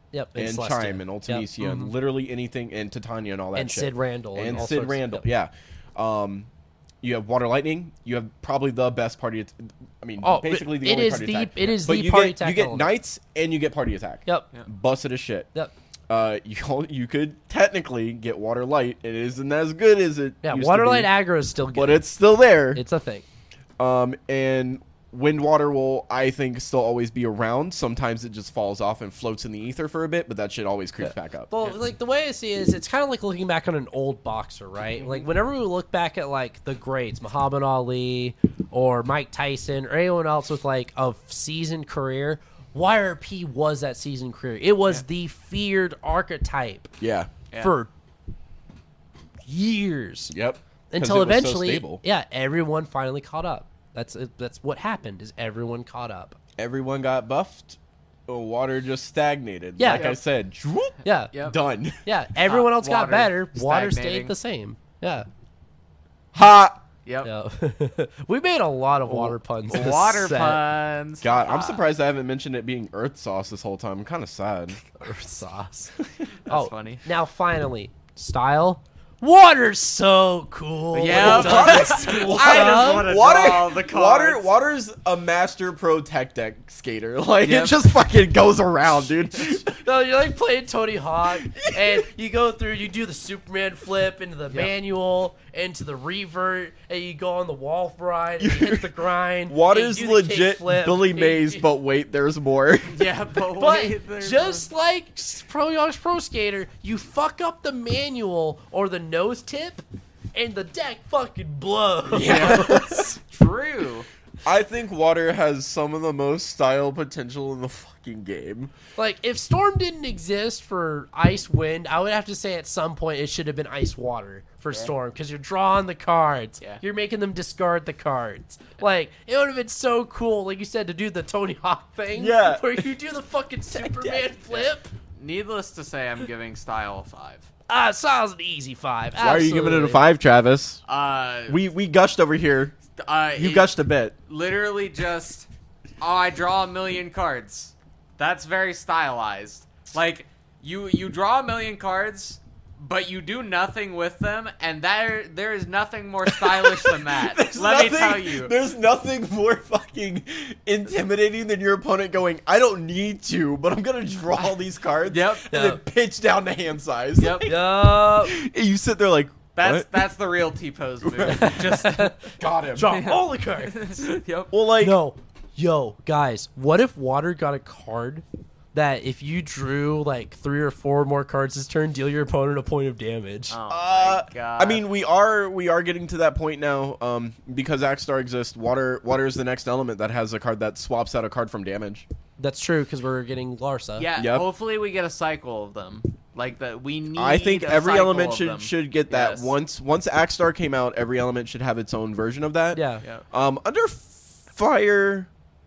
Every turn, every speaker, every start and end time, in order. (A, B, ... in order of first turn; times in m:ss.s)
0:00.1-0:01.9 A
0:00.4-0:06.5 B
0:03.6-0:05.3 A
0:07.0-0:15.5 B
0:10.2-0:12.9 A
0:16.1-0:21.1 B
0:20.4-0:22.1 A
0:21.7-0:22.8 B
0:22.7-0:23.2 A
0:23.8-0:31.5 B
0:31.0-0:46.9 A
0:35.0-0:35.3 C
0:47.0-0:47.3 B
0:47.6-0:47.9 A
0:49.4-0:50.3 A
0:50.3-0:52.0 B
0:50.9-0:56.4 A
0:56.6-1:02.0 B
0:59.8-1:00.1 A
0:59.9-1:00.2 C
1:01.0-1:01.3 A
1:02.0-1:05.3 A
1:02.4-1:04.3 C
1:06.3-1:06.8 B
1:07.2-1:10.6 A
1:09.1-1:11.8 C
1:11.2-1:14.8 B
1:14.9-1:15.9 A
1:16.5-1:17.0 C
1:16.5-1:23.1 A
1:20.9-1:24.5 C
1:21.1-1:29.7 B
1:27.4-1:27.8 C
1:29.7-1:41.4 A
1:31.3-1:32.1 B
1:38.4-1:43.1 B
1:42.9-1:44.7 C
1:43.6-1:53.0 A
1:52.1-1:53.2 B
1:52.2-1:54.1 C
1:54.4-1:58.8 B
1:59.0-2:14.9 A
2:12.1-2:12.9 B
2:13.7-2:14.3 B
2:14.5-2:17.5 C
2:17.7-2:20.0 A
2:19.2-2:20.8 B
2:20.9-2:21.6 C
2:21.5-2:22.8 B
2:23.0-2:23.7 C
2:23.4-2:24.2 B
2:24.3-2:25.5 C
2:26.0-2:38.5 C
2:36.3-2:49.9 B
2:45.1-2:45.5 C
2:45.5-2:45.8 A
2:47.2-2:47.5 C
2:47.5-2:48.4 A
2:49.6-2:52.2 C
2:51.0-2:51.7 B
2:51.4-2:54.1 A
2:52.4-2:53.0 B
2:52.9-2:54.5 C
2:54.5-2:55.0 B
2:54.8-3:03.6 A
3:03.5-3:04.8 C
3:03.7-3:12.1 B
3:12.4-3:14.1 A
3:14.0-3:19.5 C
3:14.2-3:14.5 B
3:17.2-3:25.3 B
3:22.7-3:23.0 A